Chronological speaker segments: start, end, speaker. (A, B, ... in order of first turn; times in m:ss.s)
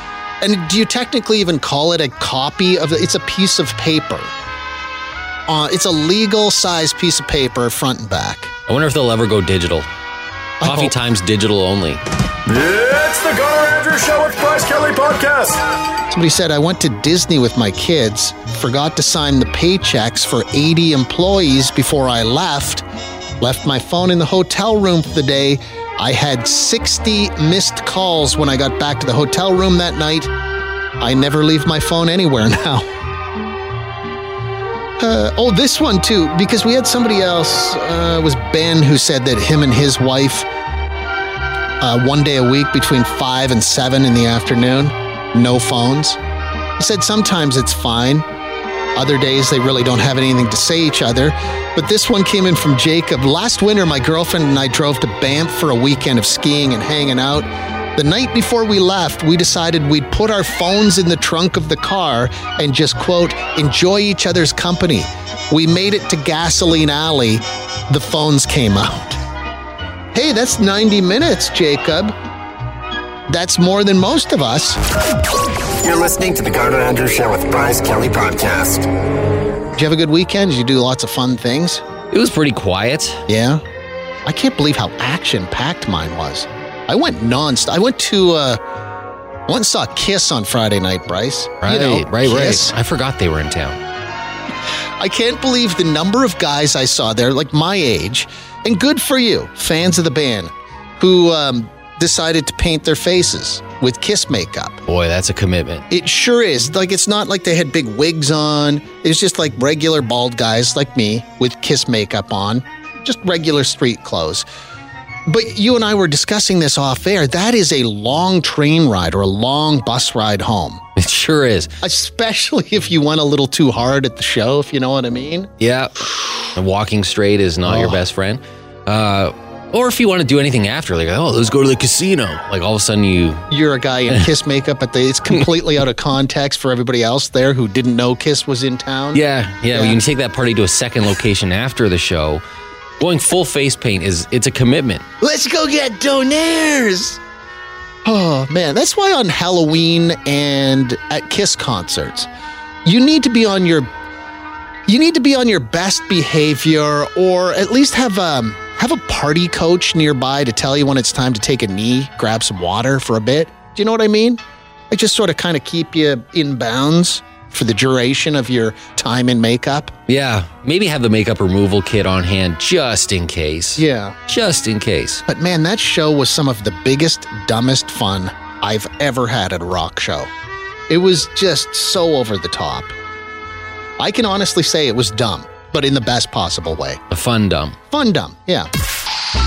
0:00.4-0:04.3 A
0:05.5-0:08.5 A
0:08.7-0:09.9 B
0:10.6-0:11.0 A
0:10.6-0:12.0 B
0:12.5-0:15.6 C
0:16.1-0:22.8 A
0:23.4-0:30.3 A
0:31.0-0:32.9 A
0:35.0-0:40.5 A
0:41.8-0:46.2 A
0:46.8-0:48.2 A
0:49.0-1:09.2 A
1:10.1-1:12.1 A
1:13.3-1:14.8 A
1:15.8-1:18.9 C
1:19.8-1:21.8 A
1:22.1-1:23.2 B
1:23.3-1:23.6 A
1:24.3-1:28.6 A
1:29.5-1:32.7 A
1:31.6-1:33.8 B
1:35.0-1:44.8 A
1:44.9-1:45.9 B
1:45.9-1:54.5 A
1:55.3-2:00.8 A
2:01.0-2:01.7 B
2:01.8-2:05.5 A
2:05.6-2:13.5 B
2:07.6-2:08.0 A
2:13.5-2:20.0 A
2:19.1-2:22.4 B
2:23.0-2:25.0 B
2:25.2-2:27.2 A
2:28.0-2:32.3 A
2:32.8-2:33.9 A
2:34.9-2:44.4 A
2:44.9-2:49.9 A
2:50.1-2:55.2 B
2:53.8-2:54.2 A
2:55.3-3:00.3 A
3:00.9-3:02.9 A
3:04.0-3:07.0 A
3:07.1-3:07.8 B
3:07.9-3:08.7 A